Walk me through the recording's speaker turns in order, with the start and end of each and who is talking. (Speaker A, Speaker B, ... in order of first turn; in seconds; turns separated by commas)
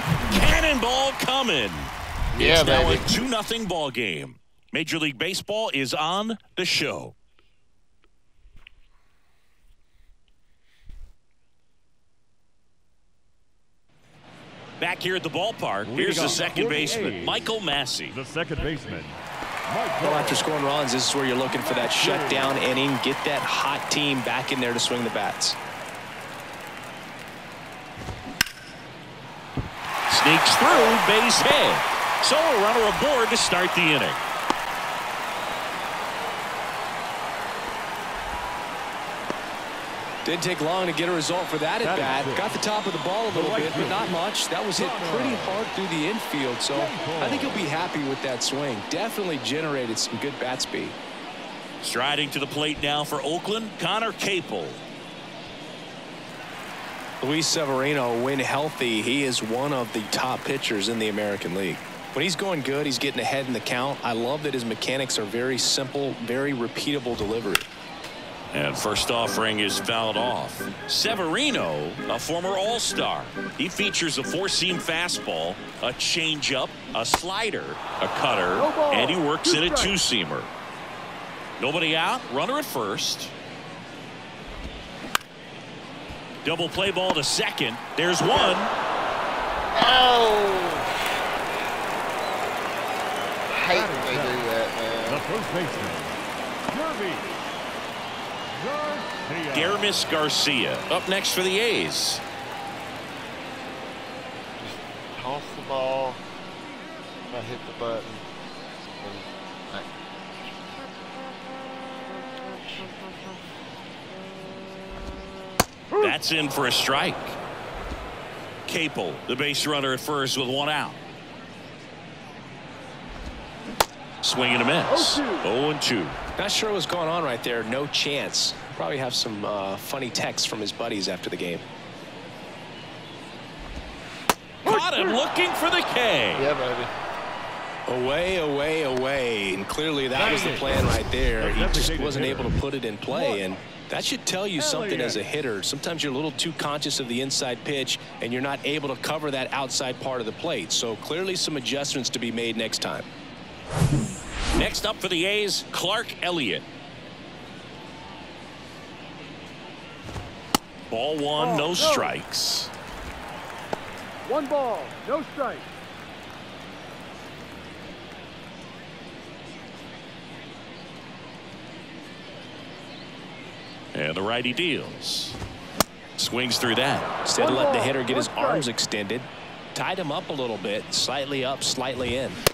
Speaker A: 0.3-7.1, Speaker B: 2.3-3.1, Speaker A: 14.8-18.2, Speaker C: 15.8-17.5, Speaker C: 18.1-20.5, Speaker D: 20.0-25.6, Speaker C: 21.6-22.6, Speaker A: 30.1-34.2, Speaker B: 30.7-31.0, Speaker D: 40.2-50.9, Speaker C: 41.8-42.6, Speaker C: 43.3-45.7, Speaker C: 46.7-47.7, Speaker A: 51.8-54.8, Speaker D: 57.2-67.7, Speaker A: 68.5-80.5, Speaker E: 78.5-80.0, Speaker A: 81.6-83.3, Speaker A: 86.4-88.7, Speaker B: 88.3-88.6, Speaker B: 89.7-91.0, Speaker B: 93.5-95.3, Speaker C: 93.7-94.4, Speaker C: 95.1-97.4, Speaker C: 98.5-100.0, Speaker A: 99.5-102.2, Speaker B: 104.6-106.2, Speaker B: 107.3-108.2, Speaker B: 109.0-109.9, Speaker A: 116.0-117.4, Speaker A: 118.7-121.0, Speaker A: 124.2-126.2, Speaker E: 124.9-125.5, Speaker D: 126.3-131.6, Speaker A: 134.6-136.5, Speaker E: 134.7-135.2, Speaker B: 136.3-136.9, Speaker D: 137.9-153.1, Speaker C: 140.1-142.6, Speaker C: 144.6-145.3, Speaker A: 154.5-156.7, Speaker A: 160.9-162.7, Speaker E: 161.4-162.1, Speaker E: 164.3-165.7, Speaker A: 173.9-175.4, Speaker A: 176.2-177.1, Speaker D: 177.2-182.4, Speaker E: 177.4-178.7